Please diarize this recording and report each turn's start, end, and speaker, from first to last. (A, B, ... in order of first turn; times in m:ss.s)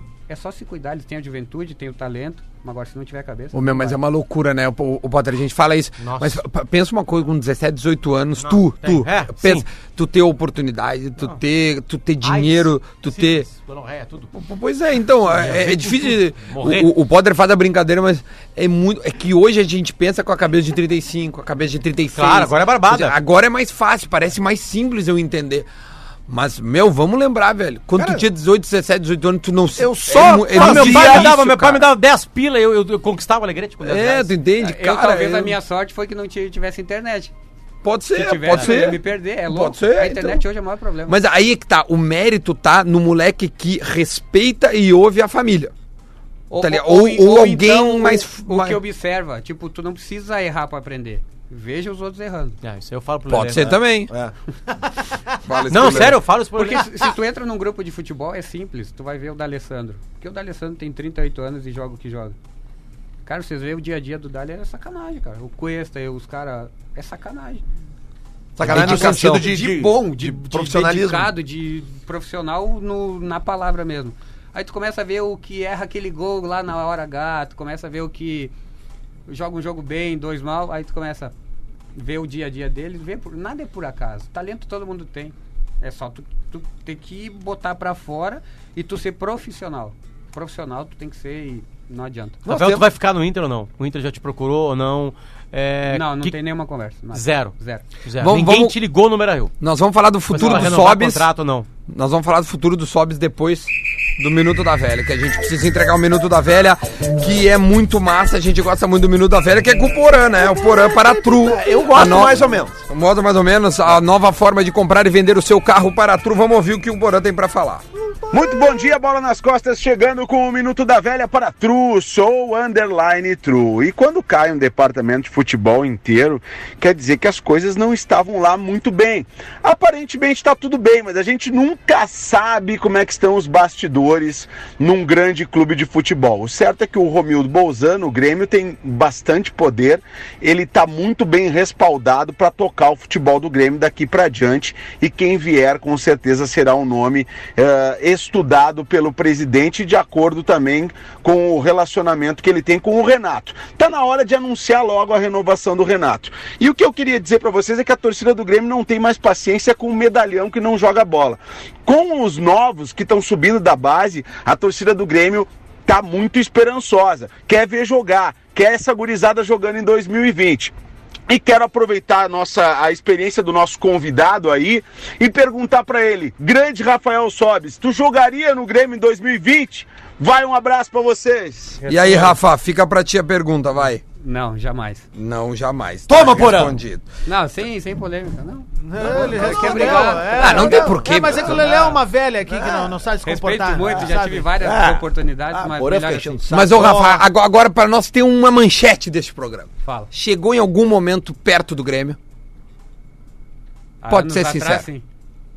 0:00.3-0:04.0 A
0:03.5-0:13.5 B
0:06.0-0:06.4 C
0:08.4-0:09.7 C
0:12.2-0:14.3 C
0:14.3-0:25.7 B
0:15.3-0:16.9 C
0:22.2-0:23.2 C
0:26.3-0:31.9 B
0:28.0-0:28.2 D
0:29.8-0:31.3 D
0:30.5-0:34.3 C
0:33.8-0:35.6 B
0:34.6-0:37.3 A
0:37.8-0:40.4 B
0:38.1-0:41.2 A
0:38.5-0:38.8 C
0:41.1-0:45.7 B
0:46.5-0:52.6 A
0:46.6-0:48.8 B
0:52.6-0:53.8 C
0:53.3-0:54.1 B
0:54.1-0:54.3 D
0:55.4-0:56.2 B
0:55.7-0:57.0 C
0:56.5-1:02.4 A
1:03.2-1:07.6 A
1:08.6-1:11.3 D
1:08.6-1:09.9 B
1:08.6-1:18.5 A
1:19.3-1:21.3 A
1:22.0-1:32.4 A
1:32.4-1:32.9 D
1:32.5-1:36.4 C
1:35.9-1:37.9 A
1:37.1-1:39.5 C
1:38.2-1:38.8 B
1:39.6-1:41.3 B
1:40.3-1:41.7 C
1:40.4-1:40.7 A
1:41.9-1:57.8 B
1:50.6-1:52.8 D
1:58.2-1:58.6 D
1:58.3-2:50.7 E
2:51.3-3:01.8 E
3:01.8-3:02.3 C
3:01.8-3:04.0 B
3:04.2-3:05.1 A
3:05.2-3:07.1 B
3:06.1-3:06.8 D
3:07.2-3:10.7 A
3:08.8-3:14.5 F
3:09.1-3:11.8 D
3:09.2-3:11.7 B
3:11.6-3:12.0 A
3:12.5-3:13.0 D
3:13.2-3:16.4 A
3:13.8-3:17.2 D
3:16.5-3:22.2 B
3:19.8-3:20.1 A
3:24.0-3:25.0 A
3:24.1-3:24.9 B